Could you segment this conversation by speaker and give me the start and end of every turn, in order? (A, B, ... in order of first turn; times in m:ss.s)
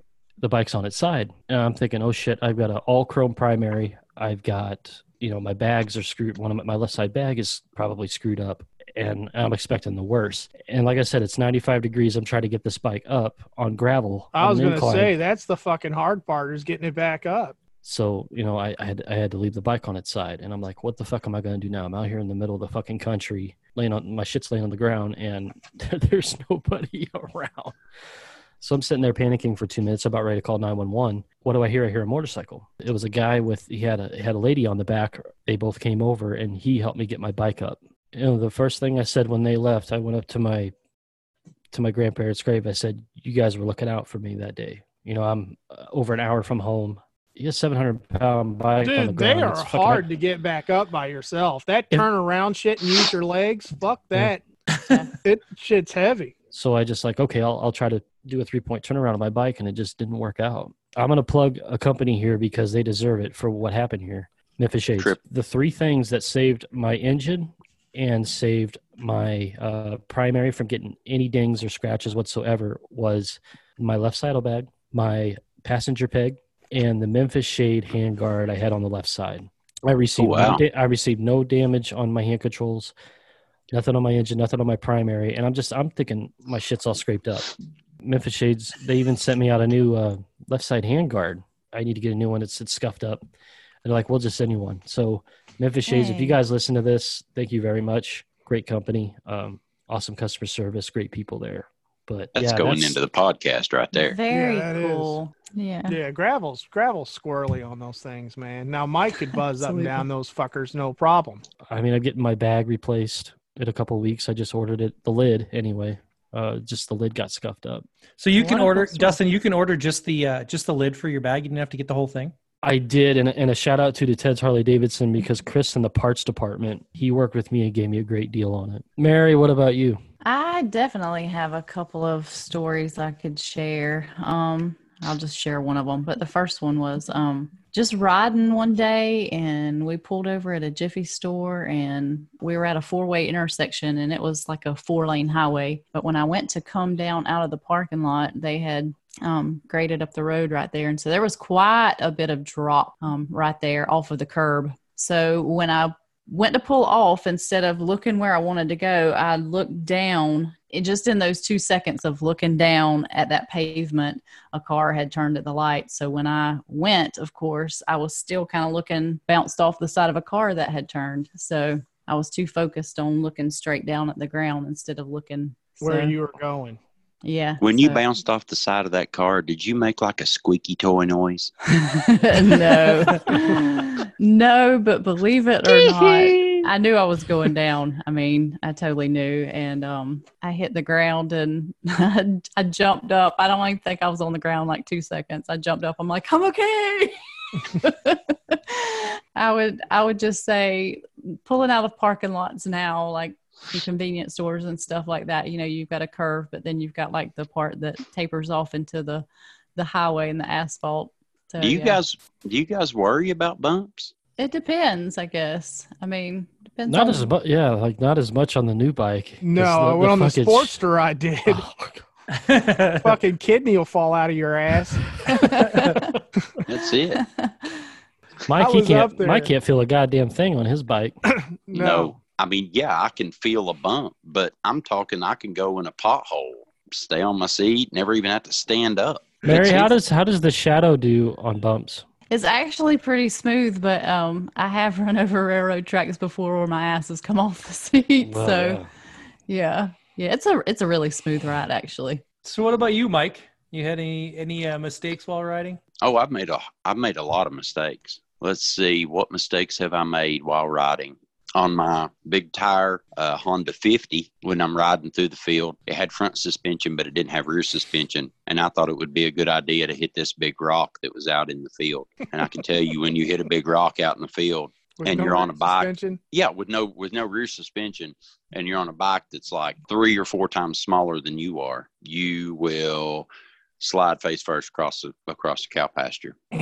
0:00.4-0:15.2 A
0:14.4-0:17.6 B
0:17.8-0:27.8 A
0:28.6-0:40.7 A
0:41.7-0:50.1 A
0:48.8-0:54.4 B
0:55.2-0:56.3 B
0:56.5-1:22.9 A
1:20.2-1:20.6 C
1:23.7-1:33.2 A
1:33.8-1:43.0 A
1:35.9-1:36.4 D
1:42.4-1:44.2 C
1:43.9-1:46.0 D
1:44.3-1:45.2 B
1:45.9-1:51.4 B
1:49.6-1:50.1 D
1:51.7-1:57.8 A
1:58.2-2:02.3 E
1:58.3-1:59.2 D
2:02.6-2:10.0 A
2:10.2-2:56.2 D
2:55.8-2:56.8 B
2:57.2-2:58.0 D
2:57.6-3:01.5 C
3:01.7-3:32.0 D
3:03.0-3:03.2 E
3:05.7-3:06.7 C
3:31.6-3:34.1 C
3:34.4-3:37.3 D
3:36.9-3:40.8 A
3:39.4-3:41.6 B
3:41.5-3:42.0 A
3:42.3-3:43.2 E
3:43.0-3:45.2 B
3:45.4-3:46.0 D
3:46.7-3:47.2 C
3:47.2-3:47.7 D
3:48.5-3:51.1 A
3:48.6-3:49.5 B
3:51.3-3:52.2 B
3:51.7-3:59.9 C
3:59.4-4:02.0 A
4:02.3-4:08.8 D
4:08.2-4:08.9 A
4:09.5-4:12.2 D
4:12.4-4:15.8 E
4:16.0-4:43.3 C
4:35.0-4:36.2 B
4:43.8-4:46.4 C